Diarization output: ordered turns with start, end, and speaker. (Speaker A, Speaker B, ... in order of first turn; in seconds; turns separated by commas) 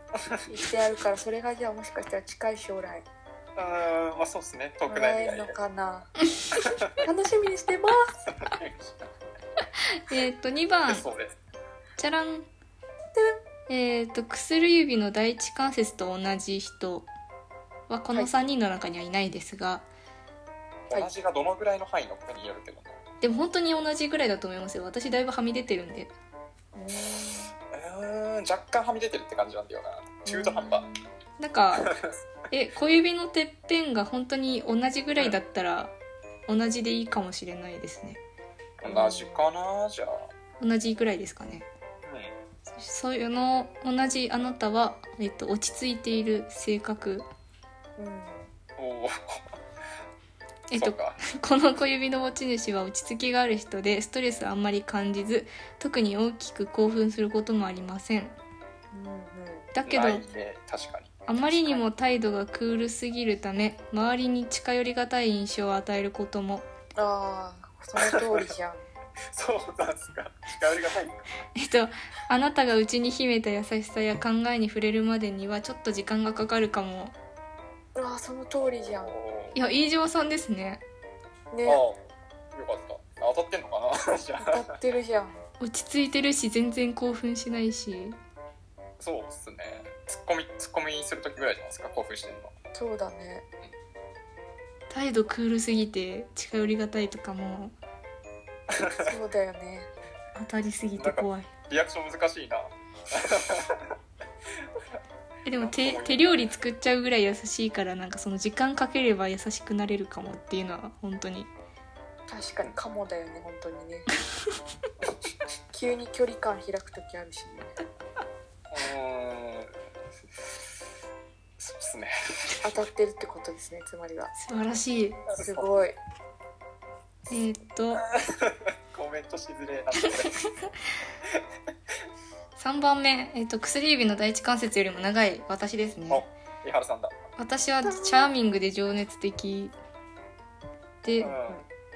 Speaker A: 0.5-3.0, Speaker B: 3.6-5.5, Speaker A: 4.9-6.1, Speaker B: 6.5-6.8, Speaker A: 7.0-8.0, Speaker B: 8.3-9.1, Speaker C: 9.9-11.1, Speaker B: 10.9-11.3, Speaker C: 12.0-12.5, Speaker C: 13.7-17.1, Speaker C: 17.9-19.9, Speaker B: 20.9-23.0, Speaker C: 23.2-26.1, Speaker A: 26.8-27.5, Speaker B: 27.7-30.9, Speaker A: 30.3-31.0, Speaker C: 31.4-31.9, Speaker B: 31.8-32.1, Speaker C: 32.5-35.9, Speaker C: 36.5-38.2, Speaker B: 38.8-40.3, Speaker A: 38.8-39.3, Speaker C: 40.6-41.7, Speaker B: 42.0-42.3, Speaker C: 42.7-47.3, Speaker A: 48.0-48.5, Speaker B: 48.8-49.4, Speaker C: 50.7-58.4, Speaker B: 50.7-51.2, Speaker A: 58.9-59.7, Speaker C: 59.7-60.3, Speaker B: 59.9-61.3, Speaker C: 61.3-66.7, Speaker A: 61.4-61.9, Speaker A: 67.0-68.8, Speaker B: 68.0-68.4, Speaker B: 69.3-71.2, Speaker C: 71.6-77.2, Speaker A: 78.0-79.2, Speaker B: 79.0-79.6, Speaker C: 79.5-80.8, Speaker A: 81.5-81.8, Speaker B: 81.6-84.5, Speaker A: 84.4-85.4, Speaker C: 85.6-88.2, Speaker B: 89.0-92.5, Speaker A: 92.7-93.5, Speaker C: 94.9-97.7, Speaker B: 98.8-99.1, Speaker A: 99.0-99.9, Speaker C: 100.3-101.5, Speaker B: 101.0-103.8, Speaker C: 105.5-111.5, Speaker B: 105.5-106.5, Speaker A: 112.3-114.1, Speaker A: 115.7-117.8, Speaker B: 118.7-119.7, Speaker B: 121.6-122.7, Speaker A: 122.6-124.3, Speaker C: 124.3-125.2, Speaker B: 125.3-125.7, Speaker A: 125.3-126.0, Speaker C: 127.3-128.0, Speaker B: 128.2-130.5, Speaker C: 132.6-136.2, Speaker B: 136.1-137.1, Speaker C: 137.4-139.8, Speaker A: 137.9-138.3, Speaker C: 141.0-141.3, Speaker B: 141.2-141.6